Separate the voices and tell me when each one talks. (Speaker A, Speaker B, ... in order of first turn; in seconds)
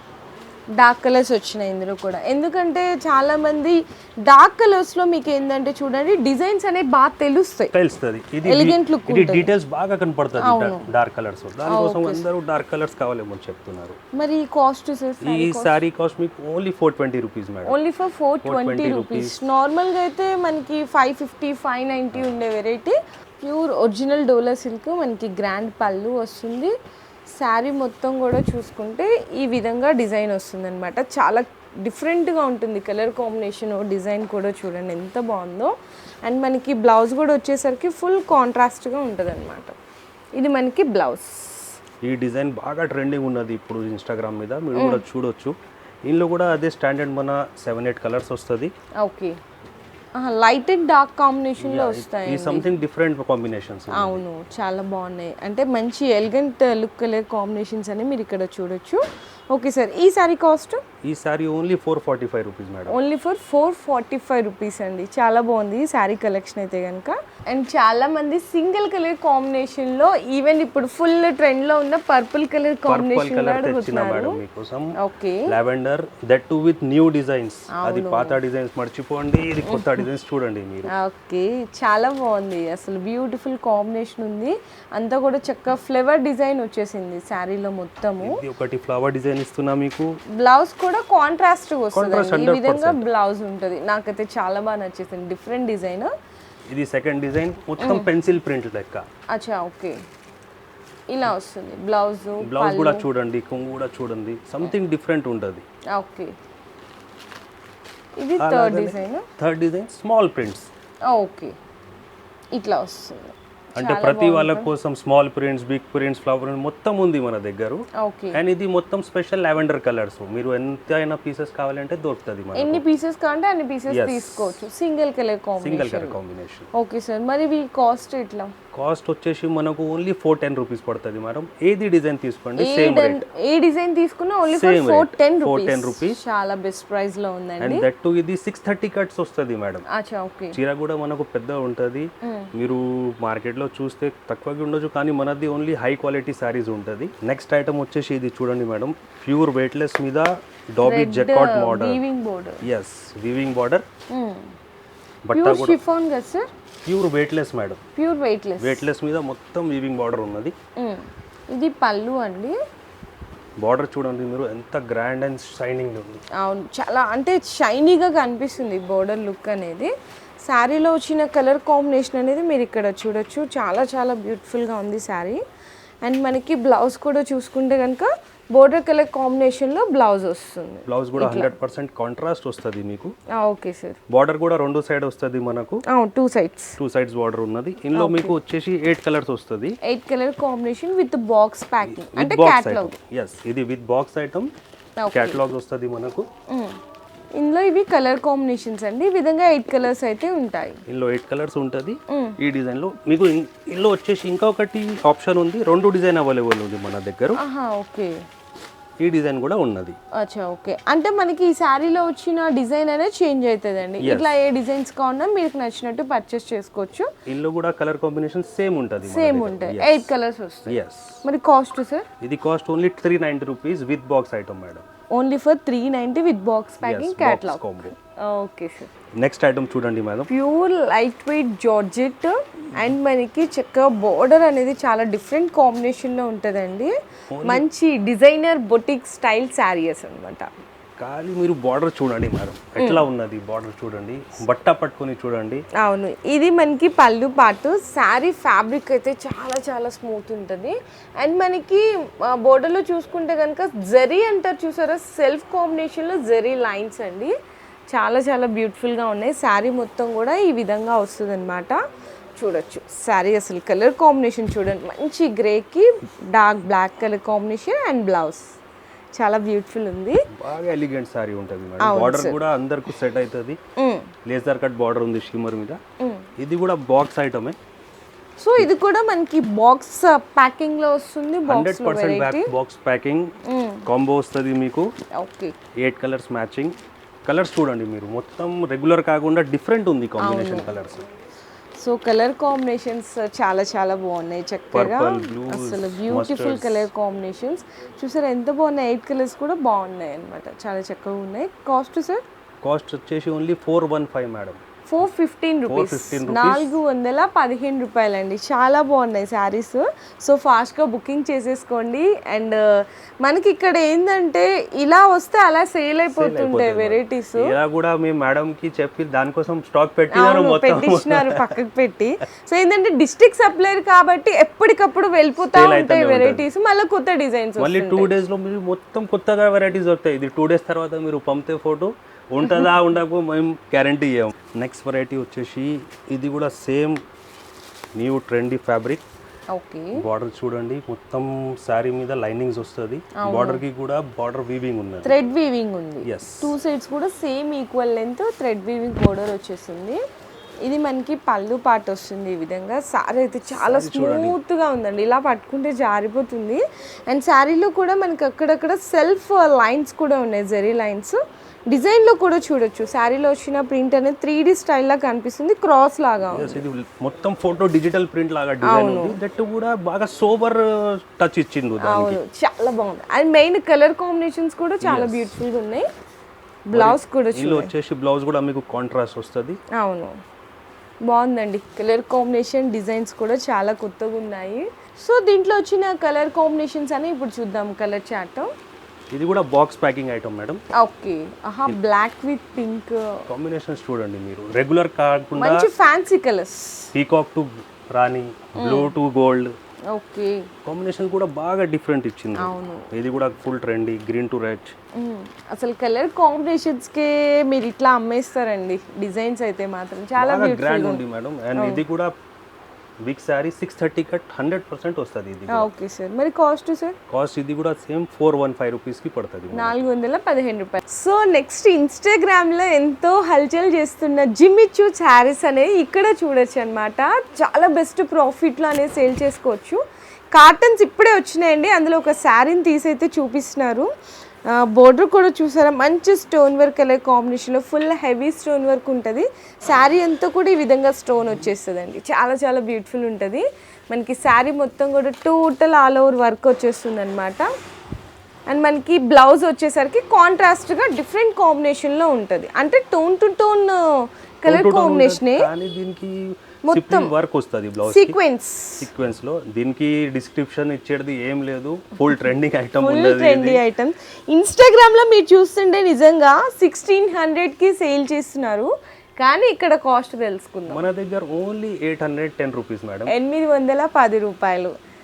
Speaker A: 0.7-7.7, 8.4-9.5, 10.4-10.9, 11.7-12.2, 14.1-15.8, 17.6-26.7, 27.4-35.7, 36.2-39.8, 40.4-41.8, 44.8-45.0, 49.0-49.4, 50.2-52.7, 53.9-60.8, 62.9-74.4, 75.0-75.5, 77.7-78.4, 79.7-80.0, 80.9-88.4, 90.3-96.1, 97.8-98.1, 99.3-100.0, 101.1-103.1, 105.9-106.3, 108.2-109.3, 111.1-111.6, 112.5-114.7, 118.0-118.4, 122.5-126.2, 126.7-128.5, 132.6-137.9, 139.9-140.6, 142.2-142.5, 150.8-152.6, 154.1-154.5, 155.3-156.5, 158.0-158.8, 160.8-162.6, 166.4-169.9, 170.4-175.4, 176.0-181.5, 183.3-184.0, 185.9-186.8, 187.9-188.4, 189.8-193.0, 195.0-195.4, 196.5-196.8, 197.4-200.8, 202.1-202.4, 207.4-208.2, 210.2-217.1, 219.0-222.1, 225.1-228.9, 230.3-240.5, 242.8-243.1, 245.8-257.4, 257.9-261.8, 262.4-268.4, 269.2-270.2, 271.8-272.4, 273.8-274.1, 276.0-276.3, 278.4-282.5, 283.4-283.9, 285.1-285.6, 290.2-290.7, 291.8-302.2, 304.9-317.6, 320.1-328.1, 339.5-340.0, 343.2-343.6, 345.0-350.0, 350.6-366.6, 368.6-369.2, 371.8-375.9, 376.7-377.7, 379.7-380.1, 381.0-388.5, 390.8-393.2, 395.4-396.9, 398.6-398.9, 399.9-400.5, 402.4-402.9, 405.0-411.0, 411.6-411.8, 415.5-417.0, 419.5-429.8, 430.3-433.9, 434.5-447.5, 448.5-455.5, 456.6-457.1, 457.8-458.9, 462.8-470.9, 473.1-474.7
Speaker B: 7.7-14.0, 15.2-17.8, 18.4-19.4, 42.0-45.5, 46.0-48.7, 51.6-54.2, 61.0-63.0, 72.9-74.9, 75.5-80.9, 88.2-90.1, 91.9-93.0, 96.7-99.1, 102.4-105.7, 108.4-110.7, 113.8-122.8, 123.9-124.7, 125.6-126.7, 128.7-133.2, 134.5-136.2, 137.6-139.8, 140.5-152.0, 152.6-153.9, 155.3-155.8, 156.9-157.8, 158.6-160.6, 163.6-166.2, 180.9-183.1, 184.1-185.8, 186.8-189.8, 191.8-194.5, 195.1-196.3, 200.9-207.4, 209.0-210.0, 214.0-214.4, 217.3-220.1, 220.7-221.2, 222.2-224.8, 226.8-227.9, 229.2-230.3, 237.3-237.7, 241.0-245.7, 270.3-273.6, 274.3-275.8, 276.4-277.6, 281.5-283.3, 283.9-284.9, 285.8-286.8, 287.3-291.1, 294.7-296.9, 302.6-304.6, 305.7-306.8, 316.1-321.6, 325.4-326.5, 327.6-337.0, 338.0-339.0, 340.0-345.2, 346.1-346.5, 353.5-354.4, 366.3-372.2, 374.8-375.3, 376.7-379.6, 389.1-390.6, 393.3-395.7, 396.9-399.5, 400.6-404.7, 410.2-412.1, 413.0-415.7, 417.1-419.8, 454.5-458.2, 458.8-463.6, 470.7-473.1